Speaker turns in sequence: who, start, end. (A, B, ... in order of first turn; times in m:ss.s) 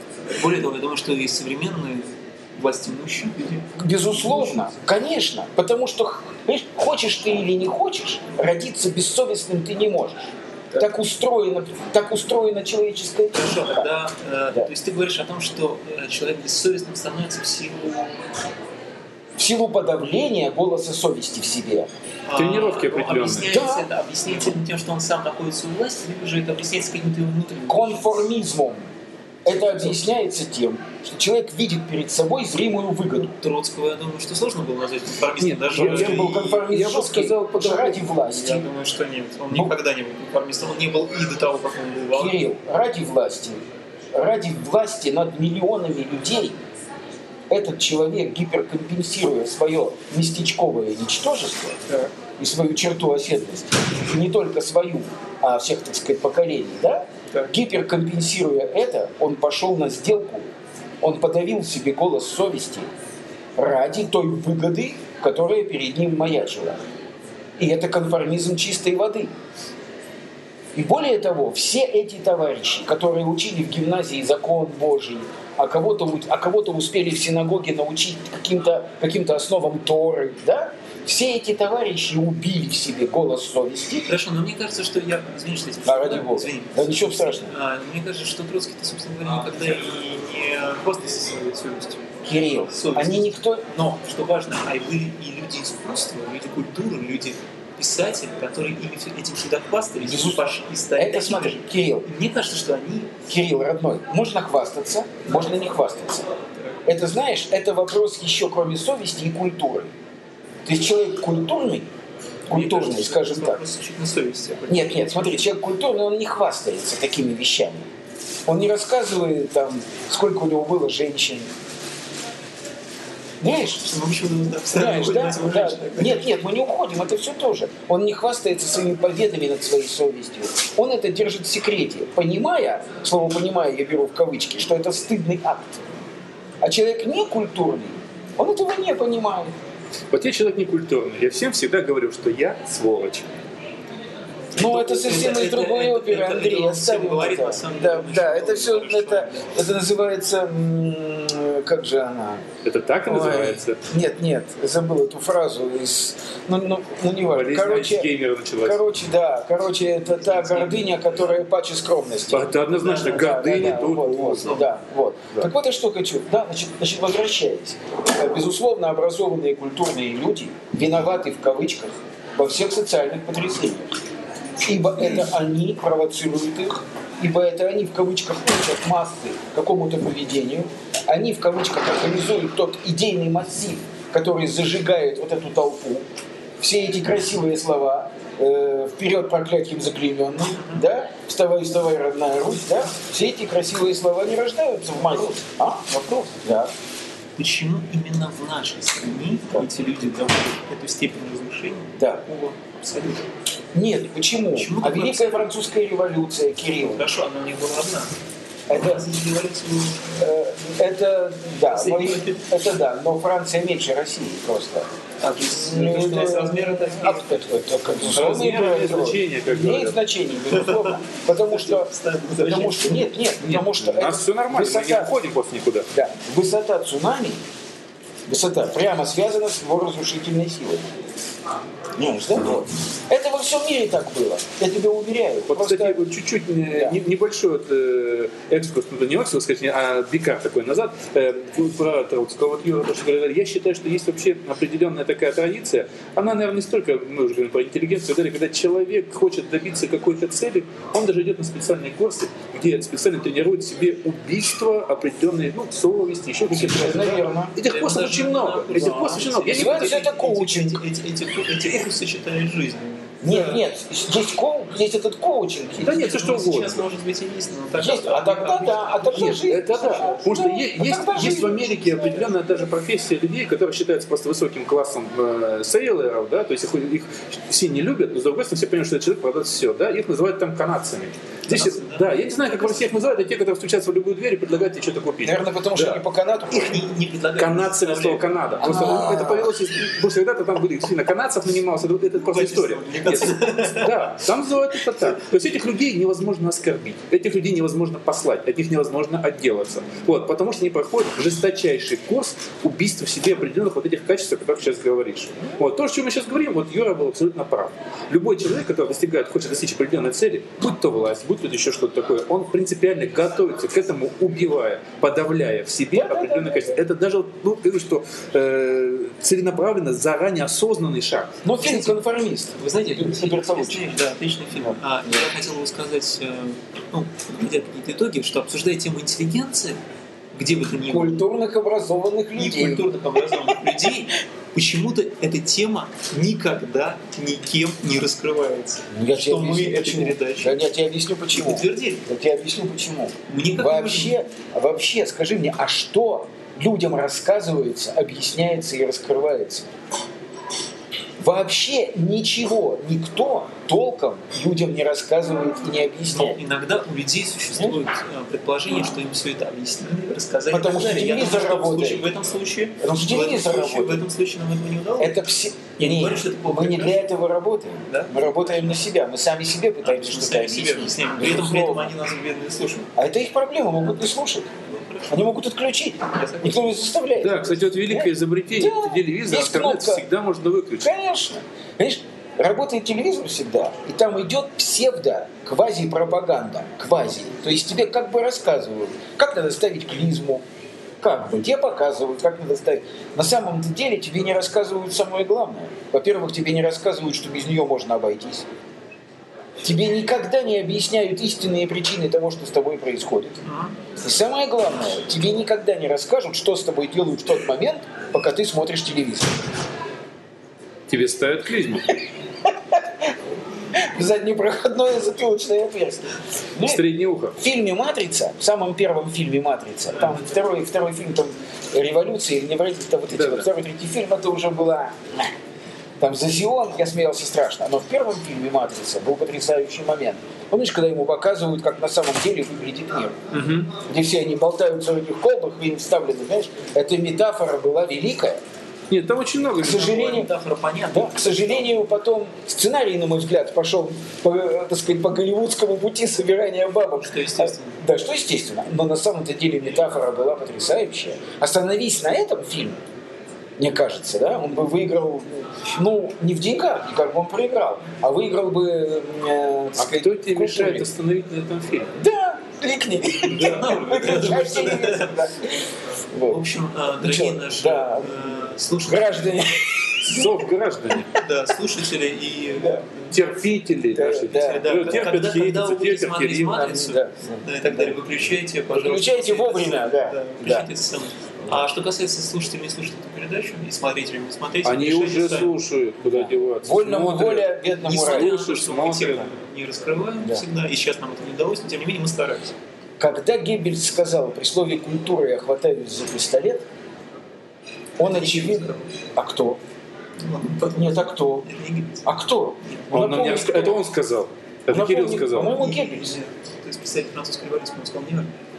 0:00.3-0:03.7 A
0:03.8-0:13.9 B
0:13.3-0:18.2 A
0:19.4-0:21.9 B
0:22.2-0:28.2 A
0:22.4-0:23.5 C
0:23.5-0:23.9 B
0:27.7-0:28.8 B
0:29.4-0:33.3 B
0:33.3-0:36.6 A
0:35.4-0:38.0 C
0:35.7-0:38.7 B
0:38.3-0:42.4 A
0:42.1-0:43.6 B
0:44.1-0:46.6 B
0:47.5-0:51.8 B
0:52.4-1:00.5 B
1:01.0-1:02.9 B
1:03.6-1:06.8 B
1:07.6-1:09.3 B
1:10.7-1:24.1 B
1:24.0-1:32.0 A
1:25.8-1:27.5 B
1:32.2-1:33.6 B
1:32.7-1:43.2 A
1:40.0-1:42.0 B
1:43.3-1:46.3 B
1:46.8-1:49.9 B
1:50.6-1:51.9 B
1:52.5-1:53.6 B
1:52.5-1:55.2 A
1:54.7-1:57.8 B
1:58.4-2:01.5 B
2:03.4-2:03.8 B
2:03.8-2:06.3 A
2:04.7-2:15.8 B
2:16.6-2:19.5 B
2:20.1-2:23.3 C
2:24.5-2:29.5 A
2:24.6-2:32.4 B
2:32.6-2:33.8 C
2:33.0-2:38.1 B
2:37.3-2:38.8 C
2:38.6-2:54.0 B
2:40.2-2:40.9 A
2:42.3-2:44.6 C
2:42.7-2:43.7 A
2:44.3-2:44.7 A
2:54.6-3:06.0 B
3:06.6-3:16.7 B
3:10.6-3:10.8 A
3:15.9-3:16.3 A
3:17.4-3:23.3 A
3:23.7-3:27.0 B
3:24.5-3:25.4 A
3:26.8-3:28.1 A
3:28.7-3:29.0 B
3:28.7-3:30.2 A
3:30.2-3:34.9 B
3:31.7-3:32.4 A
3:35.2-3:37.6 A
3:35.6-3:45.1 B
3:38.0-3:40.0 C
3:40.5-3:41.0 A
3:41.5-3:43.1 A
3:43.4-3:45.9 C
3:45.9-3:47.4 B
3:48.3-3:51.0 B
3:52.0-3:56.0 B
3:55.5-4:20.0 C
3:56.7-3:57.0 B
4:16.5-4:17.5 B
4:17.6-4:23.6 A
4:18.7-4:20.8 B
4:23.2-4:26.0 B
4:25.8-4:26.8 C
4:25.8-4:30.2 A
4:27.7-4:31.9 B
4:29.1-4:46.0 C
4:31.2-4:32.3 A
4:41.5-4:43.1 A
4:45.2-4:46.8 B
4:46.5-4:49.0 A
4:47.4-5:21.3 C
4:48.6-4:49.5 B
4:52.1-4:54.1 A
5:15.9-5:16.7 B
5:21.4-5:23.8 B
5:21.6-5:21.9 A
5:22.6-5:29.8 A
5:30.3-5:31.2 A
5:30.9-5:33.6 B
5:32.4-5:40.6 A
5:38.9-5:49.7 B
5:41.3-5:42.0 A
5:43.3-5:44.2 A
5:51.2-5:56.4 B
5:56.1-6:05.2 A
6:00.5-6:02.1 B
6:02.8-6:04.0 B
6:05.0-6:11.9 B
6:05.8-6:07.0 A
6:07.9-6:08.6 A
6:09.8-6:12.9 A
6:13.0-6:14.5 B
6:14.6-6:15.2 A
6:15.1-6:20.0 B
6:16.1-6:16.8 A
6:17.2-6:20.9 C
6:20.8-6:30.4 B
6:31.0-6:38.4 B
6:39.6-6:43.4 B
6:43.4-6:43.8 A
6:44.0-6:49.4 B
6:50.9-6:51.9 C
6:52.4-6:53.1 B
6:53.7-6:56.8 B
6:56.6-6:57.4 C
6:57.4-7:05.3 B
7:03.1-7:03.5 C
7:06.0-7:13.2 B
7:13.3-7:13.7 C
7:13.7-7:18.4 B
7:18.9-7:19.9 C
7:19.6-7:20.3 B
7:19.6-7:21.8 A
7:20.9-7:32.8 B
7:27.0-7:27.8 A
7:33.6-7:40.9 B
7:39.8-7:41.9 C
7:42.0-7:45.6 B
7:43.2-7:45.2 A
7:43.4-7:43.7 C
7:46.1-7:46.4 B
7:46.3-7:49.4 A
7:47.0-7:48.2 B
7:48.9-7:50.3 B
7:50.0-7:51.1 C
7:51.1-7:53.1 A
7:53.1-7:56.8 C
7:53.9-7:55.0 B
7:54.3-8:05.5 A
7:56.5-7:58.0 B
7:58.7-8:00.7 B
8:04.6-8:09.3 C
8:06.0-8:08.3 B
8:07.8-8:12.5 A
8:13.0-8:16.6 B
8:18.0-8:19.6 B
8:18.0-8:18.9 A
8:20.2-8:22.0 A
8:20.7-8:21.4 B
8:22.0-8:23.8 B
8:22.9-8:25.6 C
8:24.7-8:26.2 B
8:25.4-8:28.3 A